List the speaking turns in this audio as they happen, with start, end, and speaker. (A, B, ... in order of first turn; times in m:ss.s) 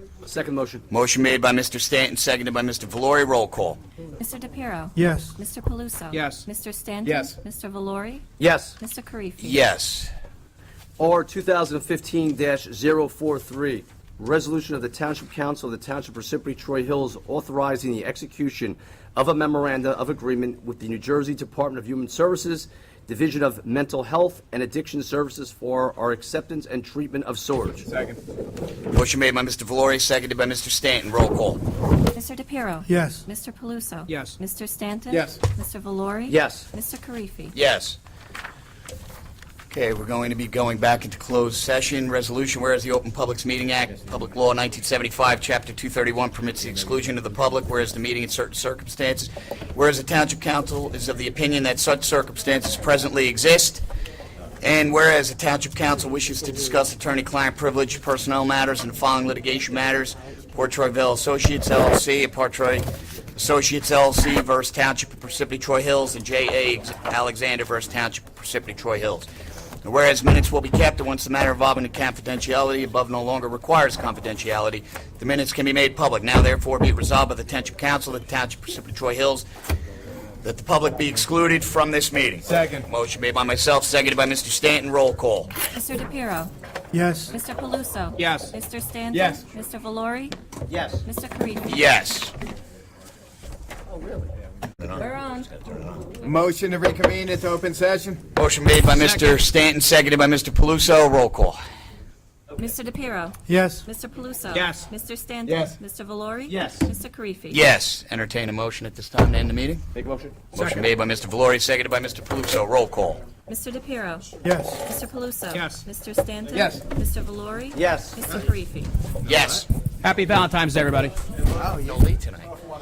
0:00.3-0:00.8 A
0:00.9-0:03.8 B
0:04.2-0:08.3 C
0:05.0-0:05.3 D
0:06.1-0:06.5 E
0:07.1-0:07.3 F
0:08.4-0:08.8 A
0:08.8-0:09.6 C
0:09.4-0:10.1 B
0:11.0-0:27.9 A
0:27.8-0:28.2 F
0:28.9-0:31.6 B
0:32.1-0:37.6 C
0:32.9-0:33.2 D
0:34.1-0:34.4 E
0:35.1-0:35.4 F
0:36.3-0:36.7 A
0:37.5-0:38.0 B
0:39.7-0:53.8 B
0:54.6-1:09.3 B
1:09.8-1:19.5 B
1:20.4-1:25.5 B
1:22.4-1:22.9 F
1:25.6-1:26.5 C
1:26.9-1:27.3 D
1:27.3-1:30.4 C
1:28.2-1:28.5 E
1:29.1-1:29.4 F
1:30.7-1:31.0 A
1:31.0-1:31.8 C
1:31.6-1:32.3 B
1:35.0-1:35.5 C
1:36.2-1:38.2 F
1:38.4-1:41.6 B
1:38.9-1:39.3 E
1:42.6-1:47.6 C
1:43.5-1:43.8 D
1:44.5-1:44.9 E
1:46.5-1:46.9 A
1:47.5-1:49.9 B
1:49.9-1:50.5 A
1:50.5-1:53.2 B
1:53.5-1:58.9 C
1:54.4-1:54.8 D
1:55.5-1:55.8 E
1:56.5-1:56.8 F
1:57.7-1:58.2 A
1:59.2-1:59.7 B
2:00.0-2:01.2 E
2:01.7-2:02.5 B